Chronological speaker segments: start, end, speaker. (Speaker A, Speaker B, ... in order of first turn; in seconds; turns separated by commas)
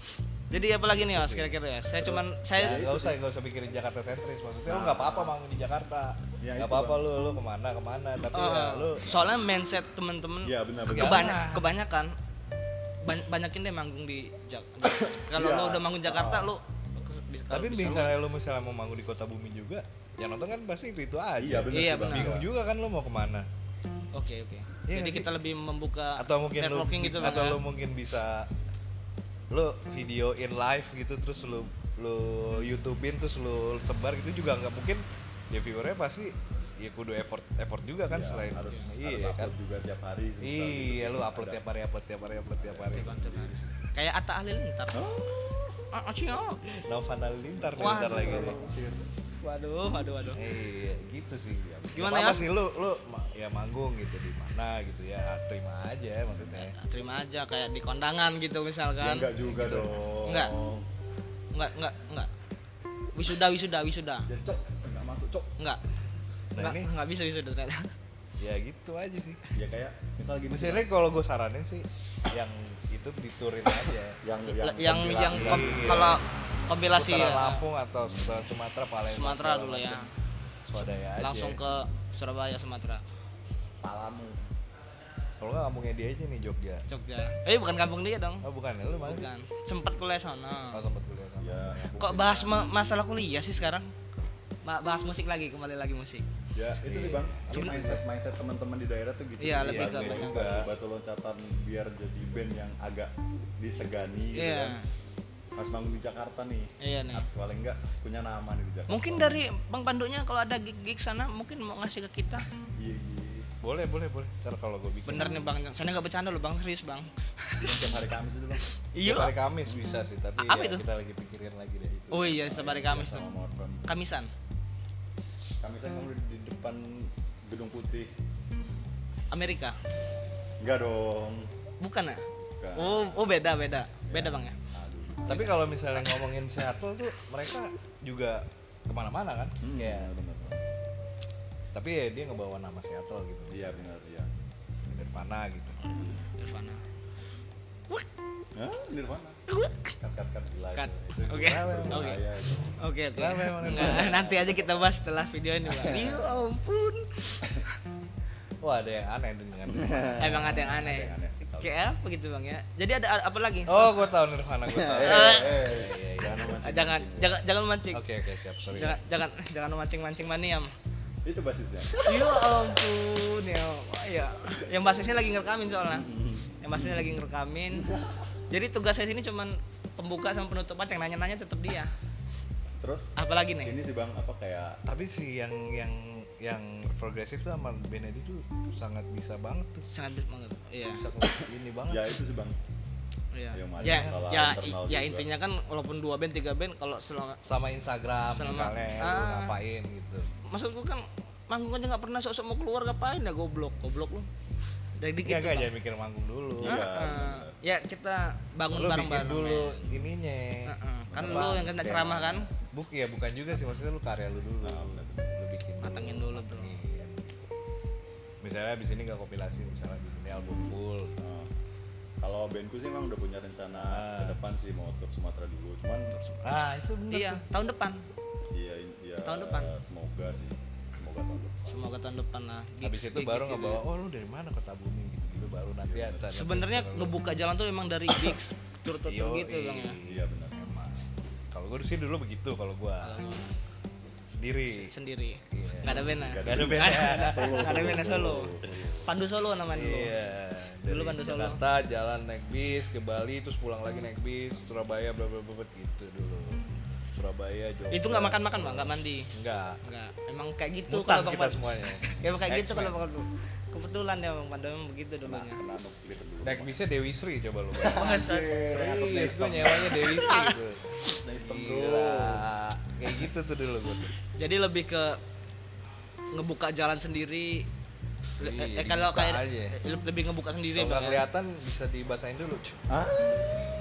Speaker A: 0.5-3.0, Speaker B: 1.0-1.3, Speaker C: 1.1-1.5, Speaker B: 1.9-3.2, Speaker C: 2.5-9.1, Speaker B: 4.7-5.4, Speaker B: 6.4-7.1, Speaker A: 8.3-12.1, Speaker B: 10.4-11.1, Speaker C: 10.8-11.8, Speaker A: 13.0-18.1, Speaker B: 15.0-16.5, Speaker C: 17.5-23.5, Speaker B: 21.4-22.5, Speaker A: 21.7-22.4, Speaker A: 24.1-27.6, Speaker C: 24.9-25.3, Speaker C: 26.2-28.5, Speaker C: 29.5-39.5, Speaker B: 38.0-41.6, Speaker C: 40.4-43.9, Speaker B: 42.5-43.5, Speaker A: 42.9-45.1, Speaker B: 44.9-45.8, Speaker A: 45.9-46.6, Speaker C: 46.6-48.6, Speaker B: 47.5-49.1, Speaker A: 47.7-48.7, Speaker A: 49.4-50.4, Speaker C: 50.3-56.7, Speaker B: 51.6-52.0, Speaker A: 51.9-52.5, Speaker B: 56.3-56.6, Speaker A: 56.6-60.5, Speaker B: 59.0-60.9, Speaker A: 61.5-62.3, Speaker A: 63.1-64.3, Speaker B: 64.2-65.5, Speaker A: 66.5-67.9, Speaker C: 66.5-66.9, Speaker C: 68.4-69.4, Speaker B: 69.5-70.9, Speaker C: 70.5-74.2, Speaker B: 74.2-76.2, Speaker A: 74.5-77.6, Speaker C: 74.9-80.0, Speaker B: 78.0-78.5, Speaker A: 79.0-80.1, Speaker C: 80.7-81.6, Speaker A: 81.1-83.0, Speaker B: 83.8-84.4, Speaker C: 85.4-86.8, Speaker A: 86.9-88.5, Speaker C: 88.4-89.3, Speaker A: 89.0-90.8, Speaker C: 90.7-91.9, Speaker B: 91.4-93.7, Speaker A: 91.9-93.9, Speaker A: 94.6-96.2, Speaker B: 96.5-104.8, Speaker C: 96.8-97.9, Speaker A: 96.9-98.0, Speaker A: 99.4-100.6, Speaker C: 99.6-100.7, Speaker A: 104.3-104.9, Speaker B: 105.5-109.4, Speaker A: 106.8-107.3, Speaker A: 108.9-112.5, Speaker B: 112.8-113.5, Speaker C: 113.6-115.5, Speaker A: 115.1-117.8, Speaker B: 117.6-118.6, Speaker A: 118.7-119.3, Speaker C: 119.0-122.0, Speaker B: 119.7-119.9, Speaker A: 120.4-120.8, Speaker B: 121.9-123.9, Speaker A: 122.1-123.3, Speaker A: 123.8-124.3, Speaker B: 125.6-128.1, Speaker A: 129.3-129.8, Speaker B: 130.6-131.5, Speaker A: 131.8-134.6, Speaker B: 132.6-133.4, Speaker B: 134.0-135.5, Speaker A: 135.2-136.2, Speaker C: 135.2-140.1, Speaker B: 139.6-140.6, Speaker C: 141.7-143.9, Speaker B: 143.5-144.3, Speaker C: 144.9-145.8, Speaker A: 145.8-146.8, Speaker B: 145.9-146.2, Speaker B: 148.5-149.4, Speaker A: 149.5-149.9, Speaker B: 150.0-152.8, Speaker A: 150.7-157.8, Speaker C: 151.3-152.2, Speaker C: 153.2-154.5, Speaker B: 153.8-154.8, Speaker B: 155.8-156.4, Speaker C: 158.6-160.7, Speaker B: 159.7-161.8, Speaker A: 160.2-164.1, Speaker C: 163.7-166.6, Speaker B: 164.6-167.4, Speaker A: 165.0-165.6, Speaker A: 166.4-168.0, Speaker C: 167.9-169.0, Speaker A: 168.6-170.7, Speaker B: 171.2-172.7, Speaker A: 172.0-177.9, Speaker B: 175.8-177.1, Speaker B: 177.7-178.3, Speaker A: 178.5-181.9, Speaker B: 182.8-184.9, Speaker A: 183.2-183.8, Speaker C: 184.8-189.8, Speaker A: 189.8-191.1, Speaker C: 190.9-192.2, Speaker B: 191.4-192.6, Speaker A: 193.3-197.4, Speaker B: 193.5-195.3, Speaker C: 193.8-194.5, Speaker C: 197.4-200.3, Speaker A: 198.2-199.6, Speaker A: 200.4-204.3, Speaker A: 204.9-205.7, Speaker C: 205.2-206.8, Speaker B: 206.6-207.6, Speaker A: 206.6-210.0, Speaker C: 208.7-217.4, Speaker A: 210.6-212.5, Speaker B: 211.1-212.4, Speaker B: 214.6-215.4, Speaker A: 215.8-216.8, Speaker C: 218.4-221.1, Speaker B: 220.3-221.5, Speaker B: 222.2-226.2, Speaker C: 223.8-224.4, Speaker A: 226.1-226.6, Speaker C: 226.4-227.4, Speaker A: 227.1-228.0, Speaker B: 228.5-231.8, Speaker A: 229.2-229.7, Speaker A: 231.7-233.8, Speaker C: 232.8-237.3, Speaker B: 235.8-236.4, Speaker A: 236.3-240.0, Speaker C: 238.9-243.2, Speaker B: 240.0-240.6, Speaker A: 243.0-243.6, Speaker C: 244.3-244.9, Speaker A: 244.7-250.2, Speaker C: 245.5-248.2, Speaker B: 245.8-249.1, Speaker C: 249.7-259.8, Speaker A: 250.8-251.6, Speaker A: 257.9-265.6, Speaker C: 260.9-263.0, Speaker B: 265.2-266.8, Speaker C: 266.4-274.1, Speaker B: 267.8-270.0, Speaker A: 267.8-268.5, Speaker A: 270.0-270.6, Speaker B: 271.1-272.5, Speaker A: 274.3-275.2, Speaker A: 276.3-277.7, Speaker C: 278.4-279.8, Speaker A: 278.4-281.2, Speaker C: 280.7-282.8, Speaker B: 282.9-283.4